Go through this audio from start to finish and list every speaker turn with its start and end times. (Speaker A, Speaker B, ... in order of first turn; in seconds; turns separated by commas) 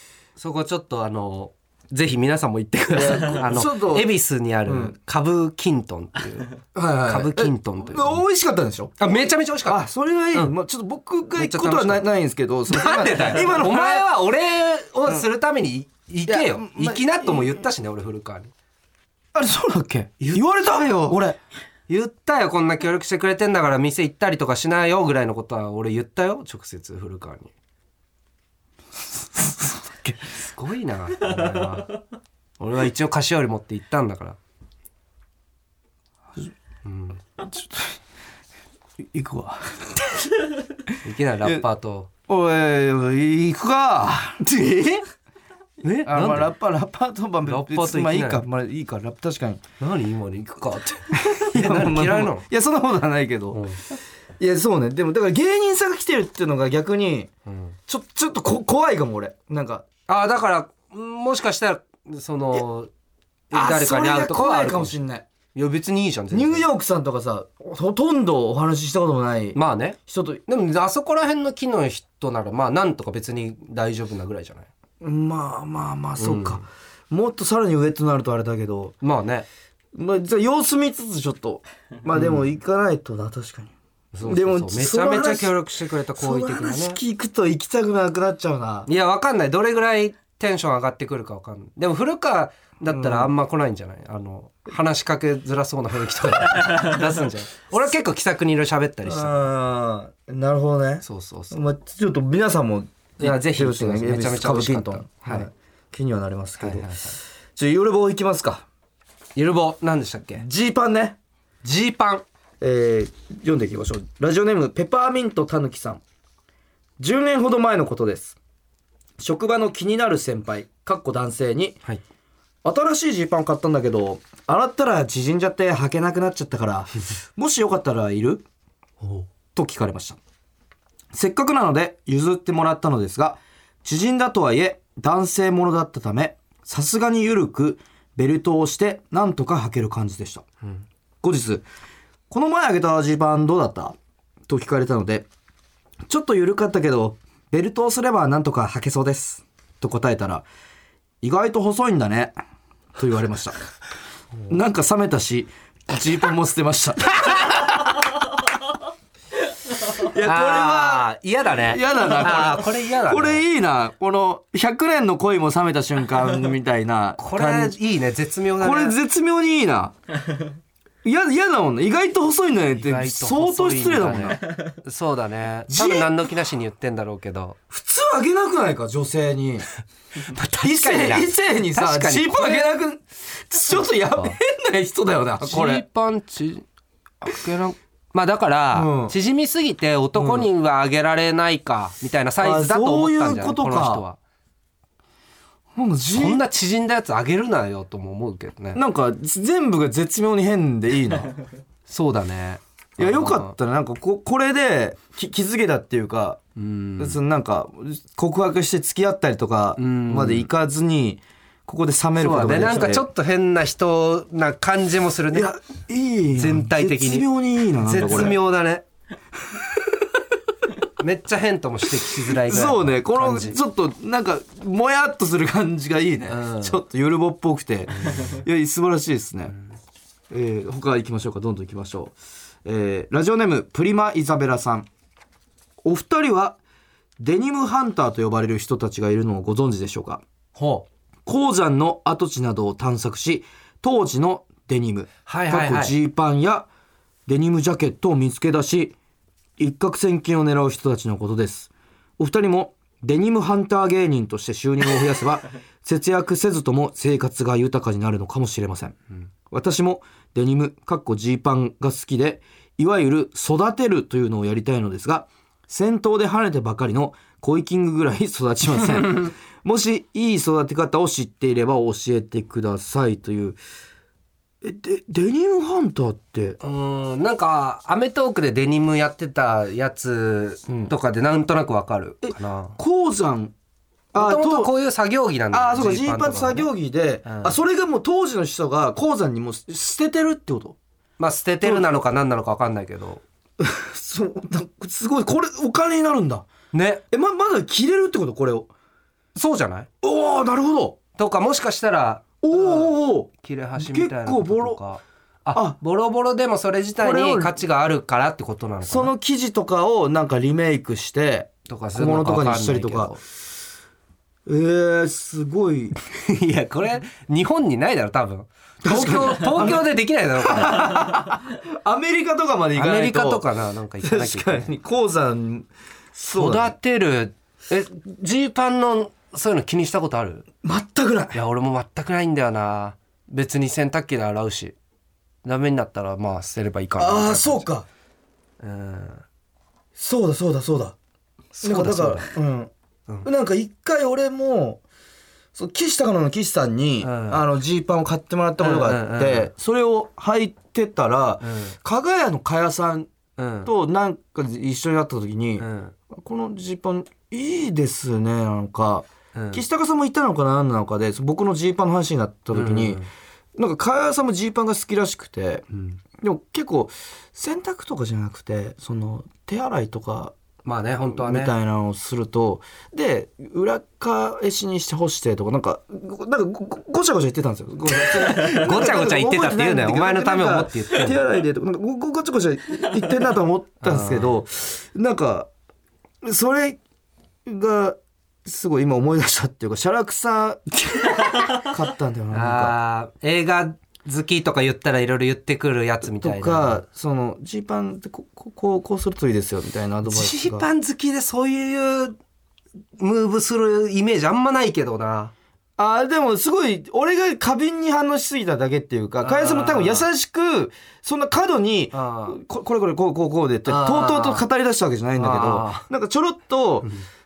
Speaker A: 0.4-8.2, Speaker B: 2.9-4.1, Speaker B: 4.7-4.9, Speaker B: 6.7-8.9, Speaker A: 9.0-10.5, Speaker B: 9.7-14.1, Speaker A: 11.3-12.1, Speaker A: 12.7-18.5, Speaker B: 16.2-17.7, Speaker B: 19.3-21.4, Speaker A: 20.2-21.2, Speaker A: 21.9-27.5, Speaker B: 29.3-30.2, Speaker A: 30.3-32.0, Speaker A: 32.6-34.4, Speaker A: 36.8-37.2, Speaker B: 37.4-37.9, Speaker B: 39.1-40.4, Speaker A: 41.0-42.1, Speaker B: 42.3-45.0, Speaker A: 45.8-46.5, Speaker B: 46.0-49.6, Speaker A: 47.4-48.4, Speaker A: 49.8-52.4, Speaker B: 51.1-53.6, Speaker A: 53.5-53.8, Speaker B: 54.4-57.3, Speaker A: 57.5-57.8, Speaker B: 57.9-59.8, Speaker A: 60.1-62.9, Speaker A: 63.5-65.0, Speaker B: 63.5-65.2, Speaker A: 65.5-66.6, Speaker B: 66.3-70.4, Speaker A: 69.5-74.7, Speaker B: 75.0-78.9, Speaker A: 76.2-76.6, Speaker A: 79.0-79.5, Speaker B: 79.9-83.7, Speaker A: 82.1-82.4, Speaker A: 84.1-87.0, Speaker B: 84.2-85.5, Speaker B: 86.2-88.9, Speaker A: 88.9-99.5, Speaker B: 92.9-93.3, Speaker B: 99.0-106.9, Speaker A: 101.0-101.6, Speaker A: 103.2-105.5, Speaker A: 106.6-107.2, Speaker B: 107.5-108.6, Speaker A: 109.3-110.4, Speaker B: 110.3-111.2, Speaker A: 111.6-112.2, Speaker B: 112.6-116.0, Speaker B: 117.0-118.4, Speaker B: 119.2-121.8, Speaker B: 122.6-128.4, Speaker A: 129.0-129.3, Speaker B: 129.5-130.2, Speaker B: 131.1-140.4, Speaker B: 141.2-141.6, Speaker B: 142.3-143.9, Speaker B: 144.5-145.3, Speaker B: 146.1-150.4, Speaker B: 151.2-152.3, Speaker B: 152.9-153.6, Speaker B: 154.5-158.0, Speaker B: 159.9-167.8, Speaker A: 160.1-163.4, Speaker A: 167.2-169.0, Speaker B: 168.6-169.9, Speaker B: 171.0-174.5, Speaker A: 172.7-177.6, Speaker B: 175.7-176.1, Speaker B: 177.7-179.7, Speaker A: 180.2-182.7, Speaker B: 180.6-185.8, Speaker A: 183.8-184.3, Speaker A: 185.4-186.7, Speaker A: 187.2-194.2, Speaker B: 188.7-189.1, Speaker B: 190.1-190.5, Speaker B: 192.4-194.0, Speaker B: 195.7-196.4, Speaker A: 196.1-198.8, Speaker B: 198.7-201.3, Speaker A: 201.9-203.5, Speaker B: 203.0-206.4, Speaker A: 206.6-207.2, Speaker B: 207.0-213.1, Speaker A: 209.8-210.5, Speaker A: 212.2-215.5, Speaker B: 215.3-218.4, Speaker A: 216.3-218.8, Speaker A: 221.0-223.6, Speaker B: 222.3-229.6, Speaker A: 226.3-226.8, Speaker A: 227.9-228.4, Speaker B: 230.3-234.9, Speaker B: 235.8-236.6, Speaker B: 237.2-240.2, Speaker A: 240.5-240.8, Speaker B: 241.2-246.7, Speaker A: 245.3-245.9, Speaker B: 247.3-248.9, Speaker B: 249.6-258.9, Speaker B: 259.5-273.6, Speaker B: 274.6-276.6, Speaker A: 276.6-282.8, Speaker B: 280.7-280.9, Speaker B: 282.2-283.5, Speaker B: 284.1-284.7, Speaker A: 284.1-286.7, Speaker B: 285.5-290.8, Speaker A: 287.2-287.6, Speaker A: 291.2-293.2, Speaker B: 293.6-296.4, Speaker A: 296.7-297.0, Speaker B: 297.1-298.7, Speaker A: 299.3-299.9, Speaker B: 300.0-301.0, Speaker A: 301.1-309.1, Speaker B: 302.4-304.8, Speaker B: 307.0-307.5, Speaker B: 308.8-313.2, Speaker A: 311.7-313.2, Speaker B: 314.4-315.9, Speaker A: 316.1-321.1, Speaker B: 318.8-319.9, Speaker B: 320.4-323.5, Speaker A: 322.7-324.7, Speaker B: 324.0-326.7, Speaker A: 326.3-330.4, Speaker B: 330.6-331.4, Speaker A: 331.3-334.8, Speaker A: 335.4-337.7, Speaker B: 337.0-337.9, Speaker A: 338.6-339.2, Speaker B: 339.9-340.9, Speaker A: 341.5-342.3, Speaker B: 341.6-342.7, Speaker B: 343.2-344.8, Speaker B: 345.5-353.1, Speaker A: 347.0-347.4, Speaker A: 348.6-349.5, Speaker A: 351.4-351.8, Speaker A: 353.4-353.7, Speaker B: 353.6-363.0, Speaker A: 355.6-355.9, Speaker A: 359.3-359.6, Speaker A: 362.5-363.1, Speaker B: 363.6-365.6, Speaker B: 366.2-370.3, Speaker A: 370.6-371.5, Speaker B: 371.1-385.5, Speaker A: 377.9-381.2, Speaker A: 383.8-384.4, Speaker B: 386.2-386.8, Speaker B: 387.4-392.7, Speaker A: 392.3-396.8, Speaker B: 396.0-400.7, Speaker A: 400.1-402.1, Speaker A: 403.0-405.3, Speaker B: 405.8-416.9, Speaker A: 409.2-410.1, Speaker A: 411.9-412.4, Speaker A: 413.6-414.4, Speaker A: 415.1-415.9